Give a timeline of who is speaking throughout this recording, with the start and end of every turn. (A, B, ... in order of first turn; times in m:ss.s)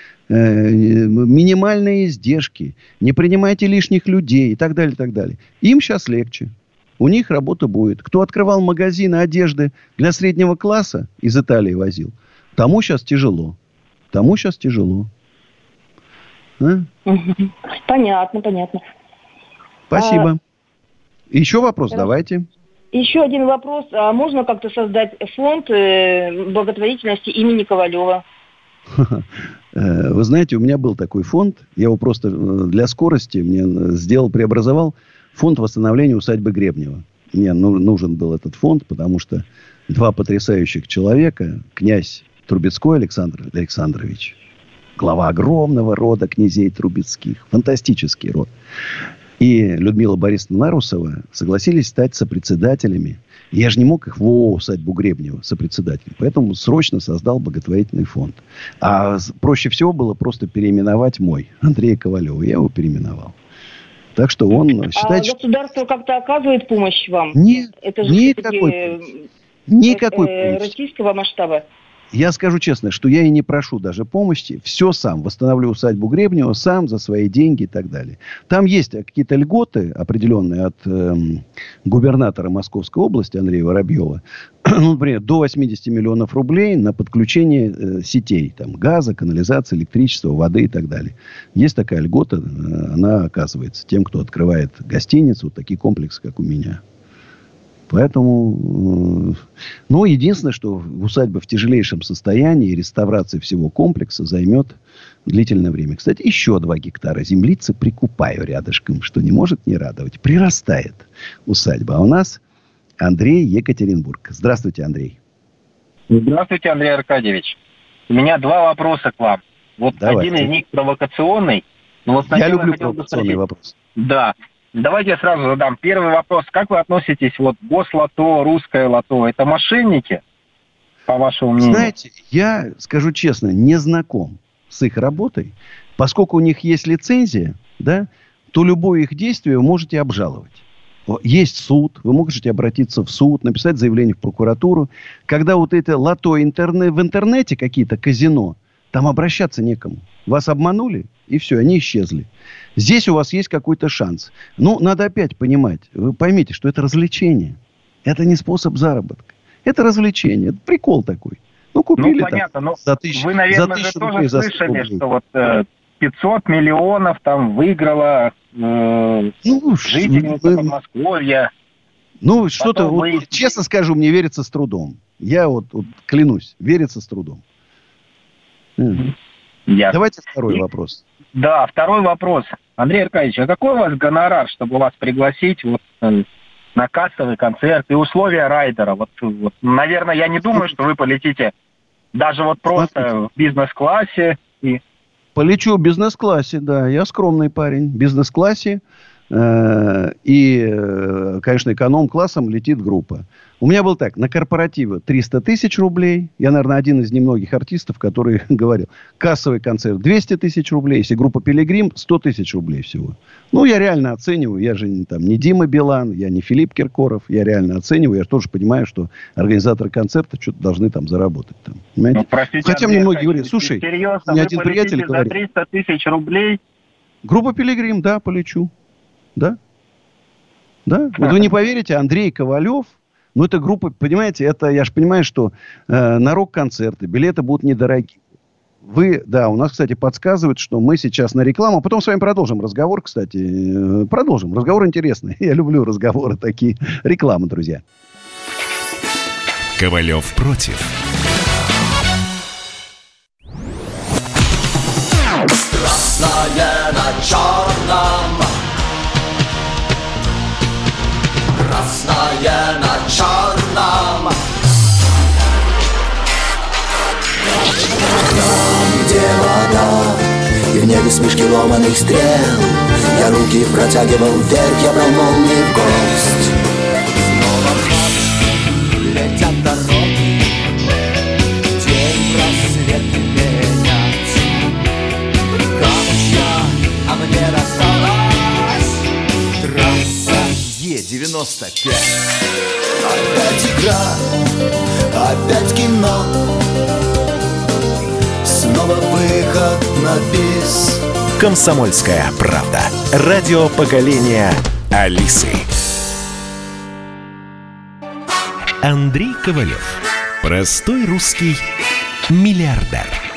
0:00.3-0:13.6 A
0:14.1-0:15.1 A
0:16.6-0:16.9 A
0:17.1-0:18.8 B
0:19.9-0:20.4 A
0:19.9-0:20.3 B
0:21.3-0:22.4 A
0:22.9-0:28.2 B
0:29.0-0:44.4 A
0:45.0-0:48.5 A
0:49.4-1:03.3 A
1:04.2-1:05.4 A
1:04.9-1:09.1 B
1:07.3-1:09.0 A
1:09.7-1:10.7 A
1:09.8-1:11.6 B
1:12.1-1:36.8 A
1:37.9-1:52.4 A
1:53.0-1:55.2 A
1:56.1-1:57.6 C
1:58.1-2:03.4 C
1:59.9-2:00.5 A
2:02.3-2:03.7 A
2:04.0-2:10.2 C
2:11.1-2:11.9 C
2:11.6-2:45.0 A
2:42.0-2:49.3 C
2:49.4-2:50.7 A
2:49.8-2:51.5 C
2:52.2-2:57.4 A
2:52.6-2:53.4 C
2:58.8-2:59.0 A
2:59.7-3:00.6 C
2:59.9-3:01.0 A
3:01.3-3:11.5 C
3:12.1-3:14.8 C
3:12.7-3:13.1 A
3:15.3-3:45.4 A
3:42.1-3:46.6 C
3:47.2-3:48.7 A
3:50.8-3:58.2 A
3:51.2-3:51.5 C
3:58.8-4:07.8 A
4:09.8-4:10.9 D
4:33.2-4:33.6 E
4:35.6-4:36.4 E
4:37.2-4:38.3 E
4:39.0-4:40.4 E
4:41.7-4:44.5 E
4:45.7-4:48.8 E
4:49.6-4:52.1 E
4:53.1-4:54.1 E
4:55.2-4:56.2 E
4:58.4-5:01.0 E
5:01.4-5:05.7 D
5:08.8-5:11.6 D
5:12.3-5:13.2 D